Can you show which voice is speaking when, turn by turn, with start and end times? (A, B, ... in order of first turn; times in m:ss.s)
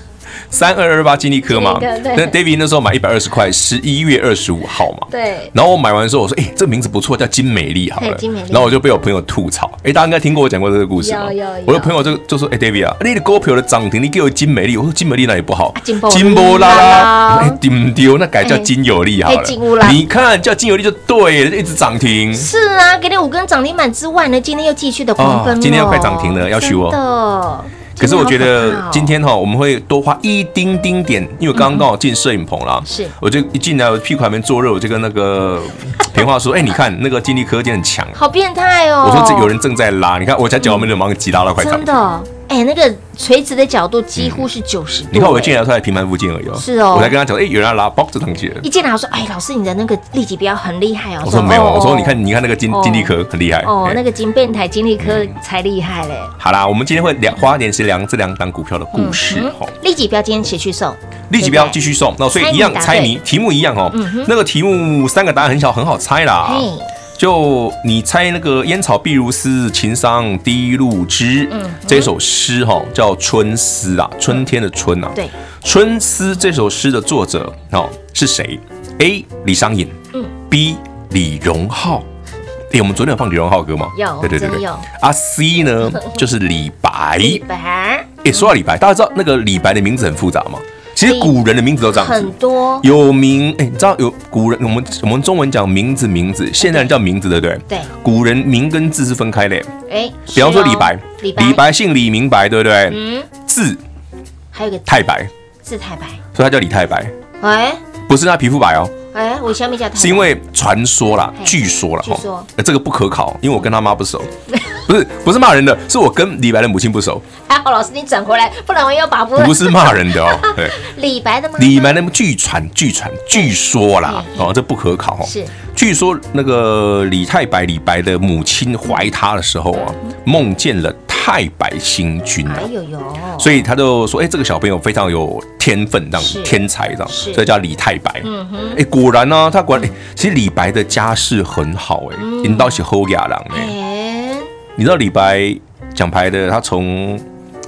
0:00.5-0:22.5 A
0:01.5-0:02.4 B
0:05.1-0:05.5 B
0:08.0-0:08.8 B
0:11.0-0:12.0 B
0:15.8-0:17.6 B
0:18.4-0:18.7 B
0:19.2-0:20.0 B
0:22.3-0:29.1 B
0:25.2-0:27.0 A
0:28.0-0:38.2 A
0:31.5-0:31.8 B
0:32.8-0:33.1 B
0:38.2-0:39.6 B
0:39.0-0:41.9 A
0:41.6-0:45.6 B
0:44.2-0:44.4 A
0:45.1-0:48.7 A
0:46.6-0:47.2 B
0:48.6-0:56.4 B
0:51.2-0:54.0 A
0:55.0-0:55.3 A
0:56.4-0:59.7 A
0:58.9-1:01.8 B
1:01.3-1:20.0 A
1:02.3-1:03.2 B
1:03.9-1:04.3 B
1:06.4-1:06.9 B
1:11.5-1:12.1 B
1:20.5-1:22.1 A
1:22.7-1:27.4 A
1:23.9-1:24.9 B
1:27.2-1:28.2 B
1:28.2-1:39.7 A
1:31.0-1:31.4 B
1:31.9-1:32.9 B
1:36.6-1:37.0 B
1:39.9-1:41.6 B
1:40.3-1:43.8 A
1:42.9-1:43.3 B
1:44.5-1:45.1 B
1:44.9-1:45.3 A
1:45.6-1:46.2 B
1:46.3-1:47.1 A
1:47.4-1:47.8 B
1:48.1-1:48.9 A
1:49.1-1:50.3 B
1:50.0-1:57.2 A
1:51.4-1:52.5 B
1:57.5-2:02.0 B
1:59.4-2:00.8 A
2:01.6-2:12.7 A
2:04.0-2:04.5 B
2:05.2-2:05.5 B
2:12.5-2:13.6 B
2:13.4-2:23.7 A
2:16.2-2:17.5 B
2:18.2-2:18.8 B
2:22.2-2:22.8 B
2:23.5-2:24.5 B
2:24.8-2:27.2 A